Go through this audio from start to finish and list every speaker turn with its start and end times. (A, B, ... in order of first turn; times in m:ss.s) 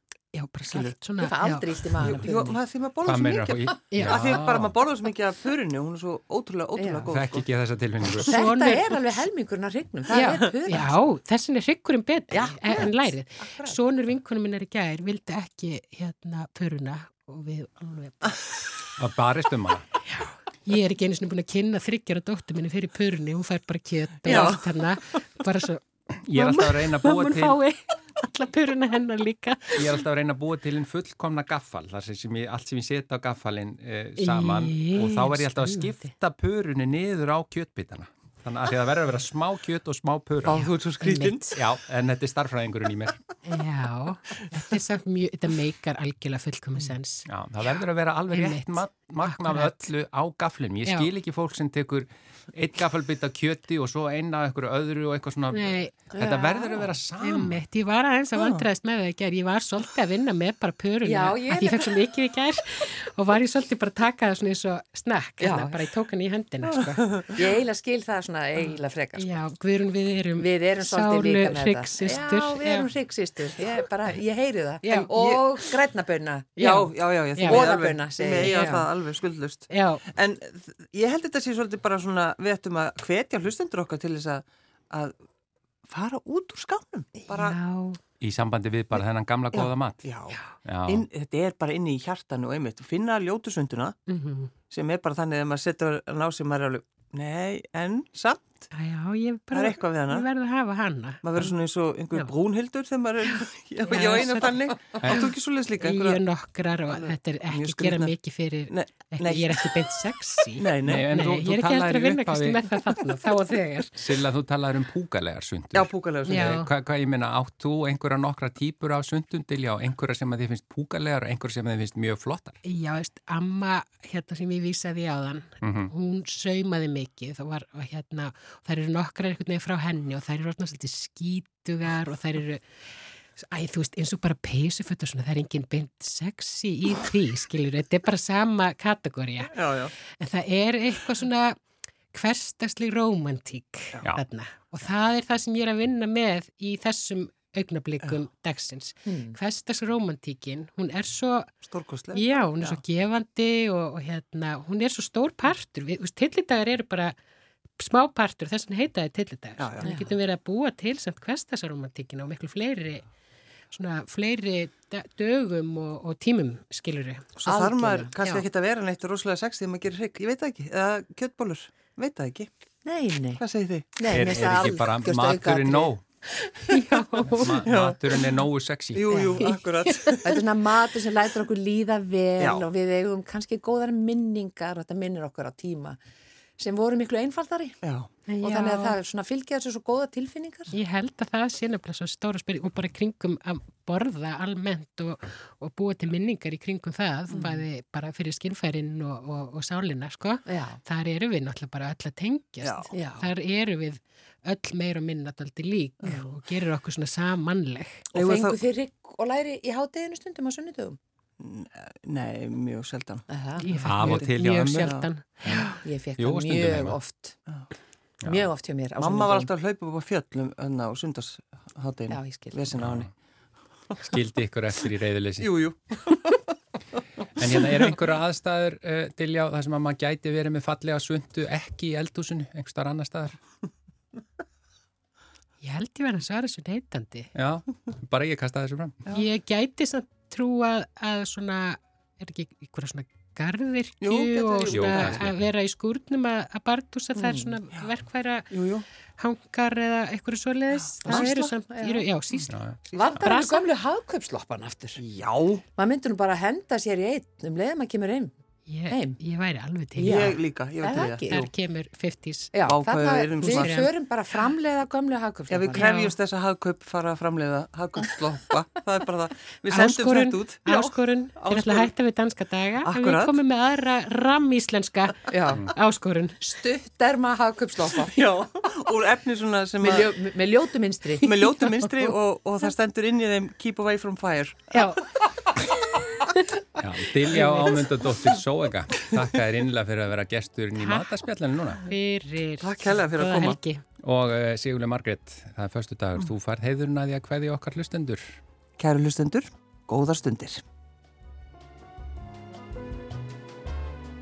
0:00.3-0:01.8 A
0:00.8-0:02.6 B
0:02.0-0:07.5 C
0:03.0-0:04.7 D
0:03.9-0:04.2 A
0:06.8-0:07.1 B
0:07.1-0:08.4 D
0:08.2-0:10.9 B
0:08.3-0:08.9 A
0:10.1-0:10.5 C
0:10.1-0:18.4 A
0:12.3-0:13.8 B
0:19.0-0:19.9 D
0:20.1-0:29.8 A
0:24.2-0:25.2 C
0:26.2-0:27.6 D
0:29.7-0:40.7 D
0:34.2-0:36.0 A
0:40.4-0:41.5 C
0:40.5-0:41.6 A
0:41.5-0:43.2 D
0:43.4-0:47.2 A
0:47.3-0:57.6 D
0:48.3-0:49.9 A
0:50.8-0:51.1 A
0:55.5-0:55.9 A
0:56.1-0:56.9 B
0:57.2-1:07.0 A
0:58.3-0:58.6 C
1:01.0-1:02.0 B
1:05.4-1:05.8 B
1:07.3-1:09.4 B
1:09.1-1:12.9 A
1:10.4-1:18.9 B
1:14.8-1:15.1 A
1:16.6-1:25.2 C
1:17.4-1:17.6 A
1:18.4-1:18.7 A
1:19.7-1:20.0 A
1:25.9-1:27.6 C
1:27.4-1:28.0 A
1:28.2-1:30.1 D
1:29.5-1:34.0 C
1:30.6-1:31.0 D
1:34.1-1:34.5 A
1:34.7-1:38.7 C
1:38.7-1:41.5 A
1:39.5-1:40.3 C
1:41.2-1:46.2 C
1:43.2-1:45.2 A
1:45.0-1:45.3 D
1:45.8-1:54.0 A
1:46.9-1:48.1 C
1:48.7-1:49.7 C
1:50.6-1:51.1 C
1:50.8-1:52.6 D
1:54.0-2:02.6 D
1:55.7-1:56.6 C
1:56.3-1:56.7 A
2:02.6-2:12.6 A
2:05.6-2:05.9 D
2:13.4-2:21.6 A
2:19.5-2:19.9 C
2:22.1-2:31.5 A
2:29.0-2:29.4 B
2:31.6-2:32.8 C
2:32.1-2:37.2 A
2:37.8-2:43.1 A
2:39.6-2:39.9 C
2:39.8-2:40.2 B
2:43.7-2:47.3 A
2:47.4-2:52.5 C
2:47.4-2:48.1 B
2:52.8-2:53.4 B
2:53.4-2:54.0 C
2:54.0-2:55.9 B
2:54.1-2:56.0 D
2:56.7-2:57.6 A
2:57.2-2:59.3 D
2:57.6-2:58.2 C
2:58.9-3:00.4 C
2:59.4-3:00.2 A
3:00.2-3:06.0 B
3:06.6-3:07.8 B
3:07.8-3:08.1 C
3:08.3-3:09.0 A
3:08.4-3:10.7 B
3:10.7-3:28.0 A
3:17.3-3:17.6 B
3:20.4-3:20.8 B
3:22.6-3:22.9 C
3:22.9-3:23.3 B
3:28.1-3:31.0 B
3:28.1-3:28.6 C
3:31.4-3:33.2 C
3:33.3-3:33.7 B
3:33.6-3:35.8 A
3:33.8-3:37.0 D
3:34.8-3:35.1 C
3:35.5-3:37.4 B
3:38.2-3:38.5 D
3:38.2-3:39.5 B
3:39.0-3:43.1 C
3:42.1-3:42.6 B
3:42.7-3:43.1 D
3:44.0-3:45.5 D
3:45.4-3:46.5 C
3:47.4-3:53.4 D
3:55.6-3:57.3 A
3:57.3-3:59.0 D
3:59.1-4:08.5 A
4:04.0-4:05.3 C
4:04.7-4:05.4 D
4:07.1-4:07.6 B
4:08.5-4:08.8 C
4:09.2-4:13.6 A
4:11.0-4:11.4 C
4:11.0-4:12.0 B
4:12.5-4:13.2 D
4:12.9-4:15.0 B
4:15.0-4:15.6 C
4:15.8-4:18.3 B
4:18.7-4:20.3 A
4:18.9-4:19.2 B
4:20.0-4:21.4 B
4:20.0-4:21.5 C
4:21.3-4:22.5 A
4:22.5-4:25.9 B
4:22.7-4:23.8 C
4:23.4-4:23.9 A
4:25.5-4:31.9 C
4:25.7-4:26.1 A
4:29.7-4:36.4 A
4:32.8-4:33.4 C
4:35.3-4:35.7 B
4:36.4-4:38.2 B
4:38.0-4:40.2 C
4:39.8-4:42.1 B
4:41.2-4:44.9 C
4:44.7-4:45.0 A
4:46.2-4:46.6 A
4:46.8-4:51.8 D
4:47.3-4:47.7 A
4:50.7-4:51.1 A
4:51.8-4:53.8 A
4:52.6-4:53.6 C
4:54.0-4:58.4 D
4:58.8-5:00.6 C